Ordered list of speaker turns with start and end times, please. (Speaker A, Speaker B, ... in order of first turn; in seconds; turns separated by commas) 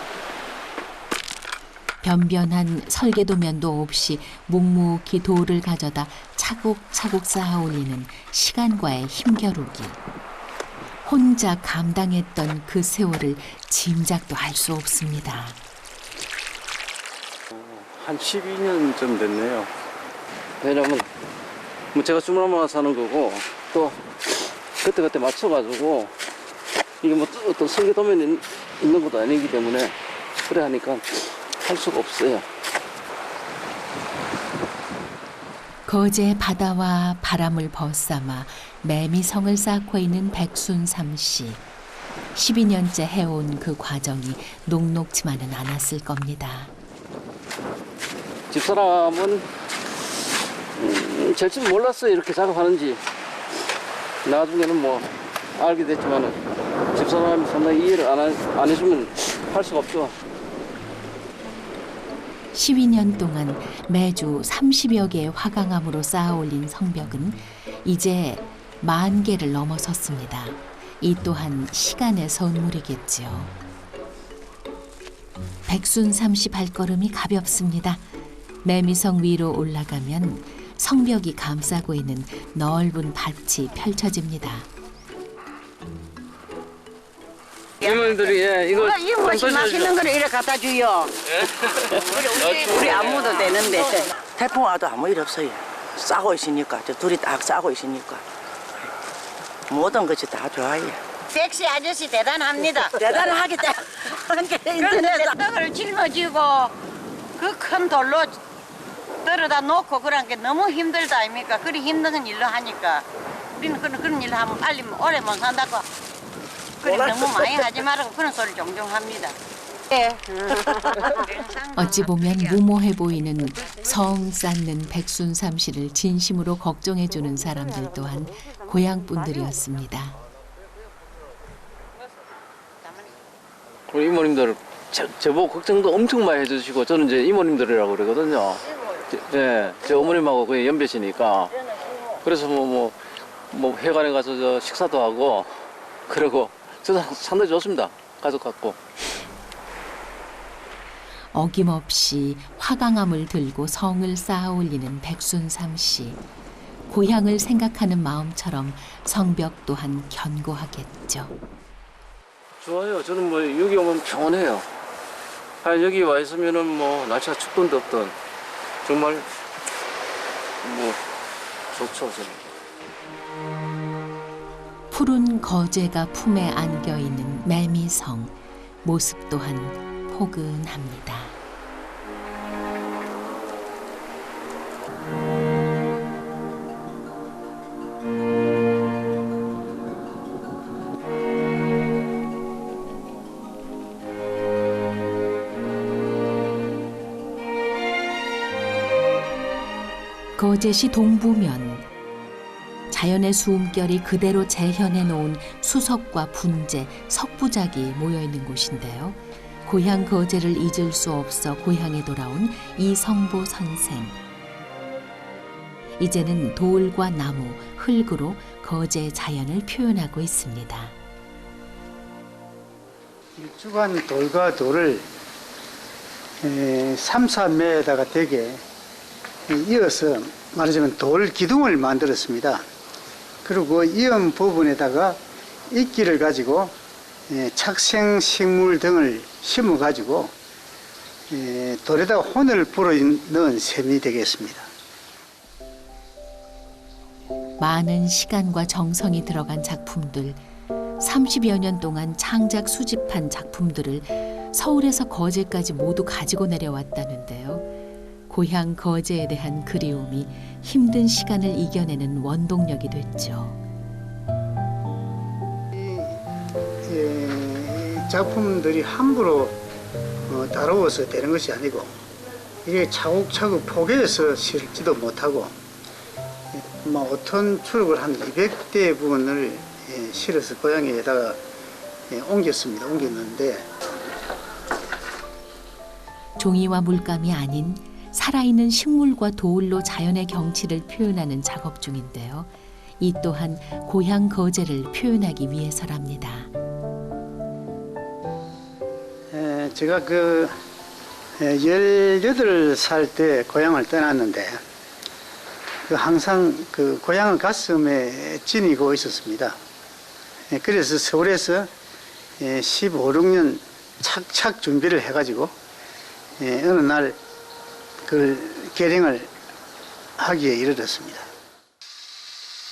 Speaker A: 2.0-10.0, Speaker A: 11.1-15.6, Speaker B: 17.5-19.7, Speaker B: 20.6-21.1, Speaker B: 21.9-26.1, Speaker B: 27.0-32.5, Speaker A: 35.9-41.6, Speaker A: 42.3-46.7, Speaker B: 48.5-49.5, Speaker B: 50.8-53.0, Speaker B: 54.2-56.4, Speaker B: 56.9-60.2, Speaker A: 62.5-73.5, Speaker A: 75.7-78.0, Speaker A: 78.6-84.7, Speaker C: 87.8-91.2, Speaker B: 87.8-90.0, Speaker B: 91.4-93.5, Speaker C: 91.9-94.2, Speaker D: 94.3-98.2, Speaker D: 99.7-101.0, Speaker C: 101.3-103.9, Speaker D: 102.9-105.3, Speaker C: 104.8-106.7, Speaker C: 107.4-108.4, Speaker C: 109.2-113.0, Speaker C: 113.6-115.8, Speaker C: 116.8-119.4, Speaker D: 116.8-117.7, Speaker C: 119.9-122.5, Speaker A: 121.8-130.2, Speaker B: 133.9-143.0, Speaker B: 143.5-148.8, Speaker A: 151.3-156.2, Speaker A: 156.9-161.3, Speaker B: 162.6-164.7, Speaker B: 165.6-168.2, Speaker B: 168.8-169.4, Speaker B: 170.6-171.0, Speaker B: 171.7-172.5, Speaker A: 174.9-181.4, Speaker A: 200.4-201.9, Speaker A: 202.9-214.2, Speaker A: 216.0-220.9, Speaker E: 223.4-225.1, Speaker E: 226.4-228.6, Speaker E: 229.5-232.6, Speaker E: 233.4-235.2, Speaker E: 235.7-236.8, Speaker E: 237.3-240.3, Speaker E: 241.3-244.7, Speaker A: 247.6-250.4, Speaker A: 251.0-257.7, Speaker A: 258.3-263.6, Speaker E: 265.7-266.2, Speaker E: 266.9-269.6, Speaker E: 270.3-271.9, Speaker E: 272.6-275.5, Speaker E: 276.6-281.4, Speaker E: 282.1-283.7, Speaker A: 286.4-296.5, Speaker E: 299.3-300.6, Speaker E: 301.4-304.6, Speaker E: 305.9-309.6, Speaker E: 310.5-311.7, Speaker E: 312.4-315.5, Speaker E: 316.4-317.2, Speaker E: 318.1-319.3, Speaker E: 320.2-321.3